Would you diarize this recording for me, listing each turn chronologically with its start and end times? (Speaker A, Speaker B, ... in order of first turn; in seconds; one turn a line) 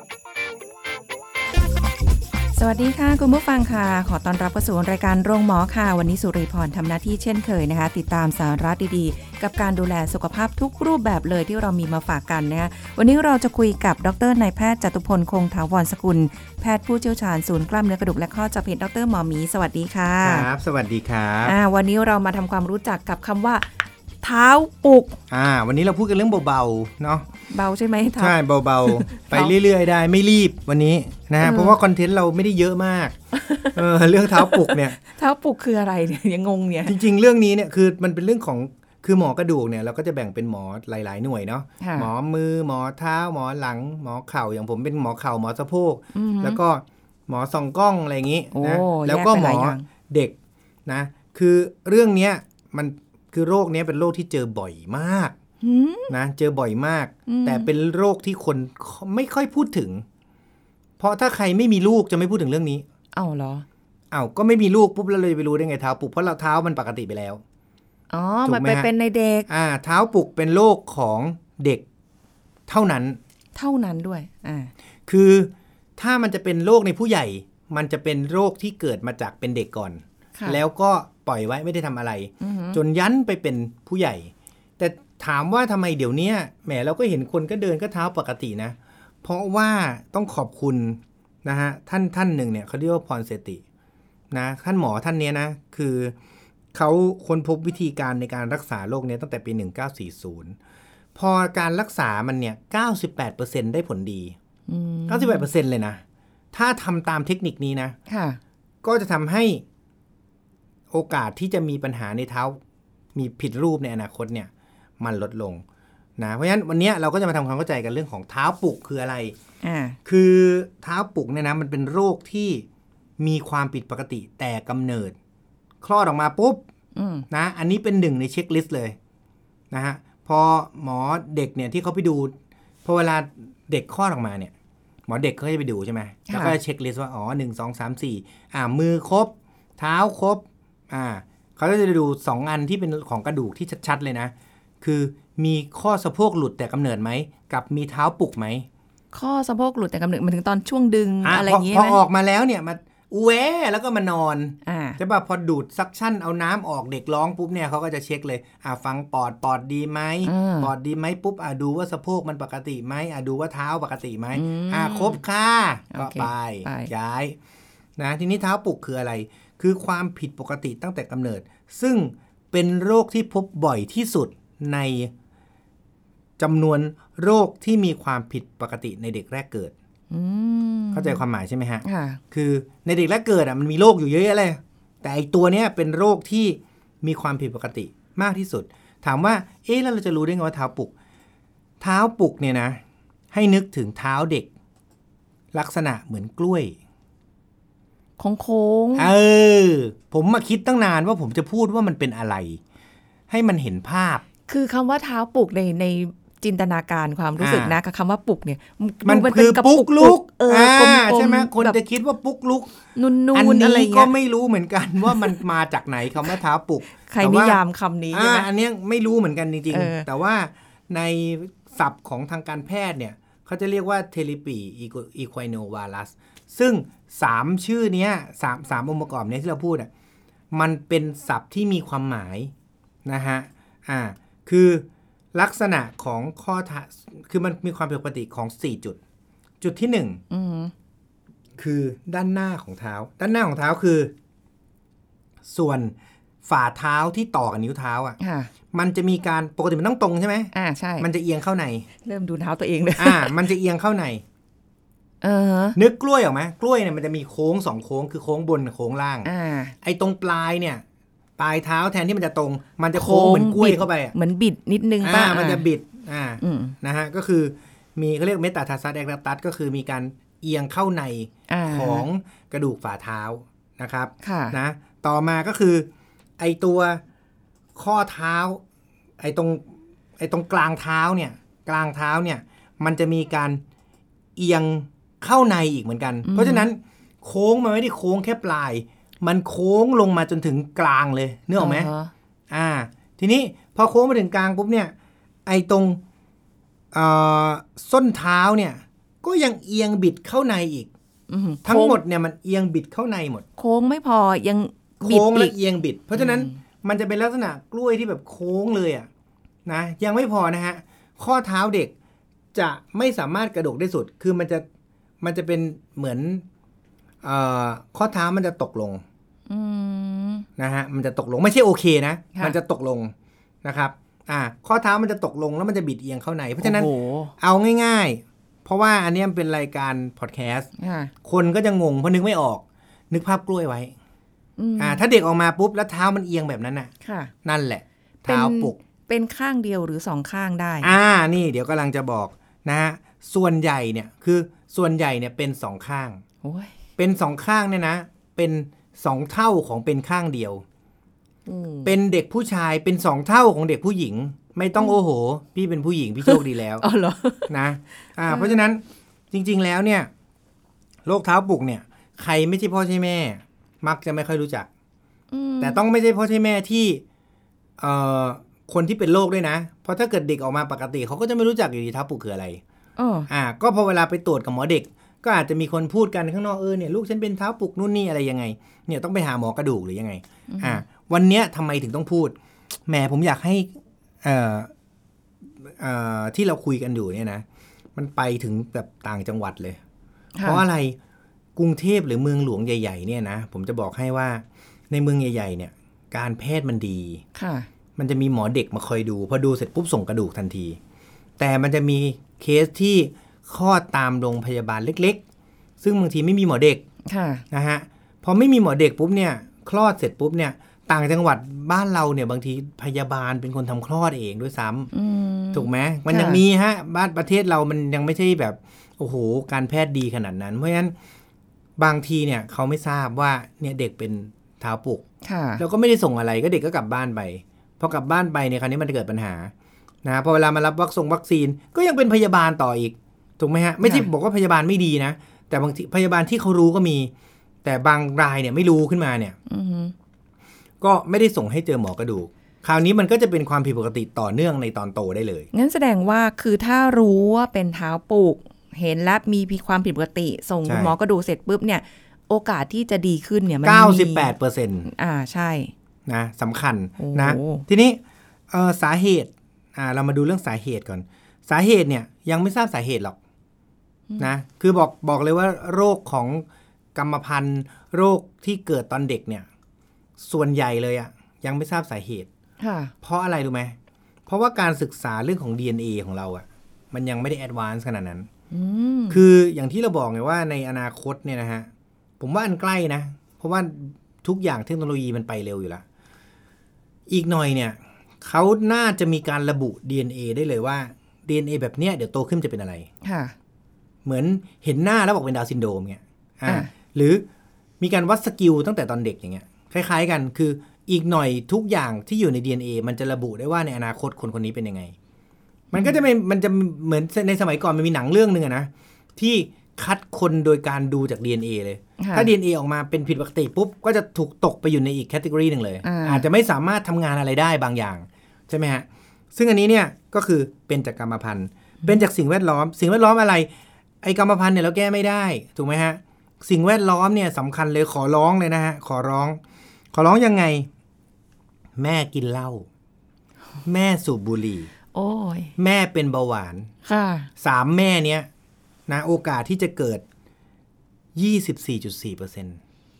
Speaker A: 2.5-20.5
Speaker B: 20.2-21.6
Speaker A: 21.4-23.7
Speaker A: 24.2-25.2
Speaker B: 25.3-27.3
Speaker A: 27.5-29.5
Speaker B: 28.2-33.2
Speaker A: 31.4-31.8
Speaker A: 33.3-33.8
Speaker B: 33.7-35.0
Speaker A: 34.3-37.0
Speaker B: 36.9-50.4
Speaker A: 41.8-42.1
Speaker A: 46.1-46.6
Speaker A: 48.5-49.9
Speaker B: 50.9-55.4
Speaker A: 55.6-56.1
Speaker B: 56.1-60.0
Speaker A: 57.3-57.7
Speaker B: 61.0-62.9
Speaker A: 63.1-63.6
Speaker B: 64.1-67.4
Speaker A: 68.1-69.5
Speaker B: 68.4-68.9
Speaker B: 69.5-71.8
Speaker B: 72.7-73.2
Speaker A: 73.5-74.7
Speaker B: 75.1-93.6
Speaker A: 82.4-82.8
Speaker B: 94.3-96.2
Speaker B: 96.7-100.6
Speaker B: 101.2-104.4
Speaker A: 104.7-105.4
Speaker B: 105.1-106.0
Speaker B: 106.5-108.0
Speaker A: 108.1-108.4
Speaker B: 108.8-109.6
Speaker B: 110.9-112.6
Speaker B: 113.2-115.6
Speaker B: 116.2-119.3
Speaker A: 119.6-120.0
Speaker B: 120.0-122.7
Speaker B: 123.2-125.2
Speaker B: 125.8-126.6
Speaker A: 127.0-127.3
Speaker B: 127.3-129.0
Speaker B: 129.7-132.3
Speaker B: 132.8-134.5
Speaker B: 135.1-148.7
Speaker A: 136.3-136.6
Speaker A: 149.1-152.0
Speaker B: 151.2-167.4
Speaker A: 154.7-155.0
Speaker A: 160.2-160.7
Speaker A: 164.3-165.2
Speaker A: 165.9-166.9
Speaker B: 168.0-175.1
Speaker B: 176.4-179.7
Speaker A: 180.1-181.2
Speaker B: 180.9-190.9
Speaker A: 181.8-182.2
Speaker B: 191.8-192.8
Speaker B: 193.3-194.5
Speaker B: 195.5-196.8
Speaker A: 198.2-199.1
Speaker B: 199.0-202.6
Speaker B: 203.3-204.2
Speaker A: 204.5-211.8
Speaker B: 207.4-207.8
Speaker B: 209.1-212.8
Speaker A: 212.9-214.1
Speaker B: 213.3-217.6
Speaker A: 215.1-215.4
Speaker A: 217.0-218.5
Speaker B: 218.1-229.9
Speaker A: 219.7-220.1
Speaker B: 230.5-232.5
Speaker B: 233.1-239.0
Speaker B: 239.6-240.2
Speaker A: 240.3-240.7
Speaker B: 241.6-244.1
Speaker B: 245.5-248.2
Speaker A: 248.2-248.5
Speaker B: 248.7-251.9
Speaker A: 250.5-251.1
Speaker A: 252.0-253.4
Speaker B: 253.0-254.2
Speaker A: 255.2-255.8
Speaker B: 255.8-259.3
Speaker A: 259.2-259.8
Speaker B: 259.8-260.8
Speaker B: 261.4-264.1
Speaker A: 262.9-265.7
Speaker B: 265.0-275.9
Speaker A: 266.4-266.8
Speaker A: 271.5-272.1
Speaker A: 274.2-274.6
Speaker B: 276.4-277.0
Speaker B: 277.8-278.6
Speaker B: 279.2-283.6
Speaker B: 284.4-291.9
Speaker A: 286.2-286.7
Speaker A: 291.6-292.1
Speaker B: 292.5-294.9
Speaker B: 295.5-296.0
Speaker B: 296.9-300.9
Speaker A: 301.3-302.0
Speaker B: 301.6-303.4
Speaker A: 303.6-305.5
Speaker B: 305.0-309.1
Speaker A: 306.1-306.6
Speaker B: 309.7-311.9
Speaker B: 312.5-314.6
Speaker B: 315.2-316.4
Speaker B: 317.2-319.0
Speaker A: 319.5-320.5
Speaker B: 320.6-323.1
Speaker B: 323.6-330.7
Speaker A: 326.6-327.3
Speaker A: 330.8-331.1
Speaker B: 331.2-333.9
Speaker A: 334.6-335.0
Speaker B: 334.8-336.9
Speaker A: 337.0-337.3
Speaker B: 337.4-338.8
Speaker A: 338.2-340.9
Speaker B: 340.8-346.2
Speaker A: 346.4-346.7
Speaker B: 347.0-350.6
Speaker A: 351.5-351.9
Speaker B: 351.9-356.9
Speaker A: 356.2-357.5
Speaker B: 357.5-360.1
Speaker A: 358.3-358.6
Speaker B: 361.1-364.7
Speaker A: 365.3-365.8
Speaker B: 365.6-367.0
Speaker B: 367.8-372.6
Speaker A: 373.0-373.3
Speaker B: 373.3-382.4
Speaker A: 380.5-380.8
Speaker B: 382.9-384.7
Speaker B: 385.5-389.8
Speaker A: 390.4-390.6
Speaker B: 390.4-391.0
Speaker B: 391.6-397.2
Speaker A: 397.4-397.7
Speaker B: 398.0-400.8
Speaker B: 401.4-405.2
Speaker B: 405.8-406.8
Speaker A: 407.1-407.4
Speaker B: 407.5-414.9
Speaker A: 414.9-416.4
Speaker B: 415.5-420.9
Speaker B: 421.8-425.0
Speaker A: 425.2-425.6
Speaker B: 425.6-429.5
Speaker B: 430.0-437.1
Speaker A: 433.8-434.1
Speaker B: 437.6-439.4
Speaker A: 439.5-439.9
Speaker B: 440.8-445.5
Speaker A: 445.5-454.3
Speaker B: 450.7-450.9
Speaker B: 453.6-454.9
Speaker A: 454.9-455.7
Speaker B: 456.1-463.2
Speaker A: 457.0-457.6
Speaker B: 464.2-469.5
Speaker B: 470.2-472.3
Speaker A: 472.6-472.9
Speaker B: 473.0-473.8
Speaker B: 474.3-478.3
Speaker A: 478.5-479.2
Speaker B: 479.1-481.7
Speaker B: 482.2-485.8
Speaker B: 487.1-492.9
Speaker A: 493.0-493.4
Speaker B: 494.1-497.3
Speaker A: 496.4-496.7
Speaker B: 497.8-504.9
Speaker A: 505.7-506.0
Speaker B: 505.7-523.5
Speaker A: 512.0-512.3
Speaker A: 515.8-516.3
Speaker B: 524.0-529.4
Speaker B: 529.9-530.7
Speaker B: 531.8-532.7
Speaker B: 533.6-534.7
Speaker A: 534.9-535.5
Speaker B: 535.6-536.7
Speaker A: 536.9-537.3
Speaker B: 537.4-538.3
Speaker B: 538.9-540.0
Speaker B: 541.2-542.6